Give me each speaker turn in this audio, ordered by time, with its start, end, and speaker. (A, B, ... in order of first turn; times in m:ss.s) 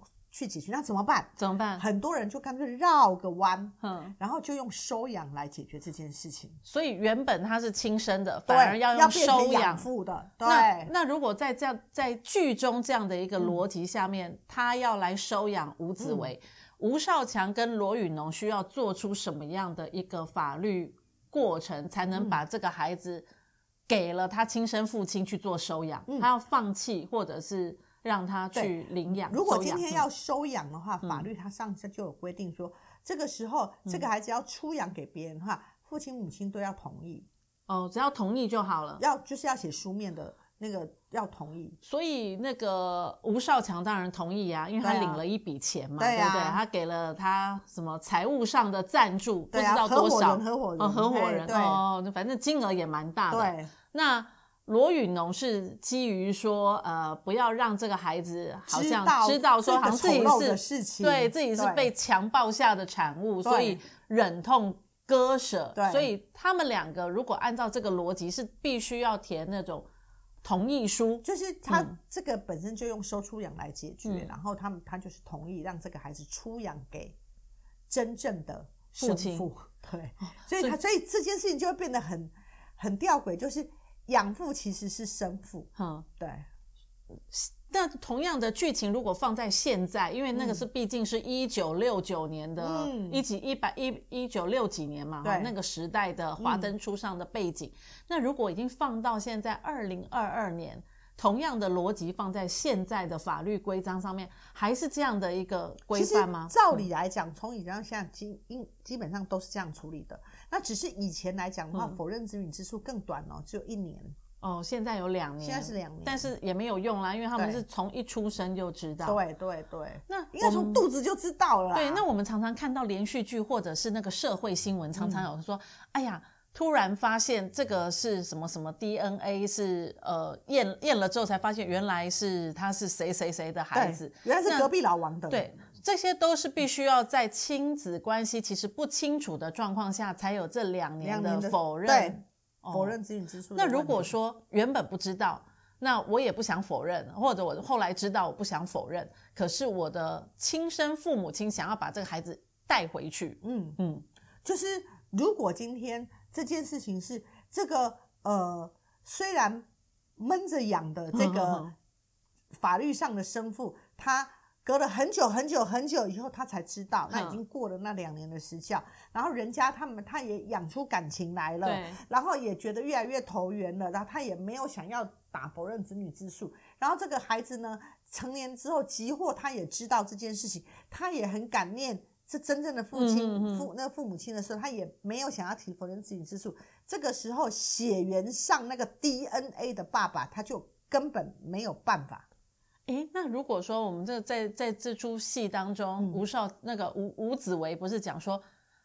0:00.3-0:06.6 A
0:01.4-0:01.8 B
0:03.8-0:04.1 B
0:06.6-0:09.9 B
0:08.5-0:10.9 A
0:10.4-0:23.2 B
0:16.0-0:16.3 A
0:22.1-0:22.4 A
0:23.9-0:30.0 B
0:28.5-0:37.3 A
0:31.0-0:31.3 B
0:37.7-0:39.0 B
0:39.0-0:41.8 A
0:41.8-1:09.9 B
0:44.8-0:45.2 A
0:46.0-0:46.6 A
0:49.5-0:51.8 A
0:53.3-0:53.7 A
0:58.7-1:01.9 A
1:03.4-1:03.8 A
1:05.8-1:06.1 A
1:10.4-1:11.9 B
1:11.2-1:17.2 A
1:14.0-1:14.3 B
1:17.9-1:26.4 A
1:19.0-1:19.4 B
1:20.4-1:20.8 B
1:25.8-1:26.0 B
1:27.3-1:46.8 B
1:30.3-1:30.6 A
1:32.6-1:33.2 A
1:35.2-1:35.5 A
1:36.4-1:36.7 A
1:45.9-1:54.2 A
1:54.4-1:59.2 B
1:55.4-1:56.3 A
1:57.4-1:57.6 A
1:59.0-2:02.0 A
2:00.1-2:00.8 B
2:01.7-2:14.7 B
2:04.9-2:05.2 A
2:13.7-2:15.4 A
2:15.3-2:22.9 B
2:21.0-2:22.2 A
2:22.7-2:24.1 A
2:23.5-2:34.0 B
2:33.4-2:33.8 A
2:34.4-2:39.6 A
2:40.2-2:41.7 A
2:41.1-2:41.7 B
2:42.5-3:12.2 A
2:47.1-2:47.4 B
2:51.6-2:52.0 B
3:02.9-3:03.7 B
3:12.9-3:18.4 B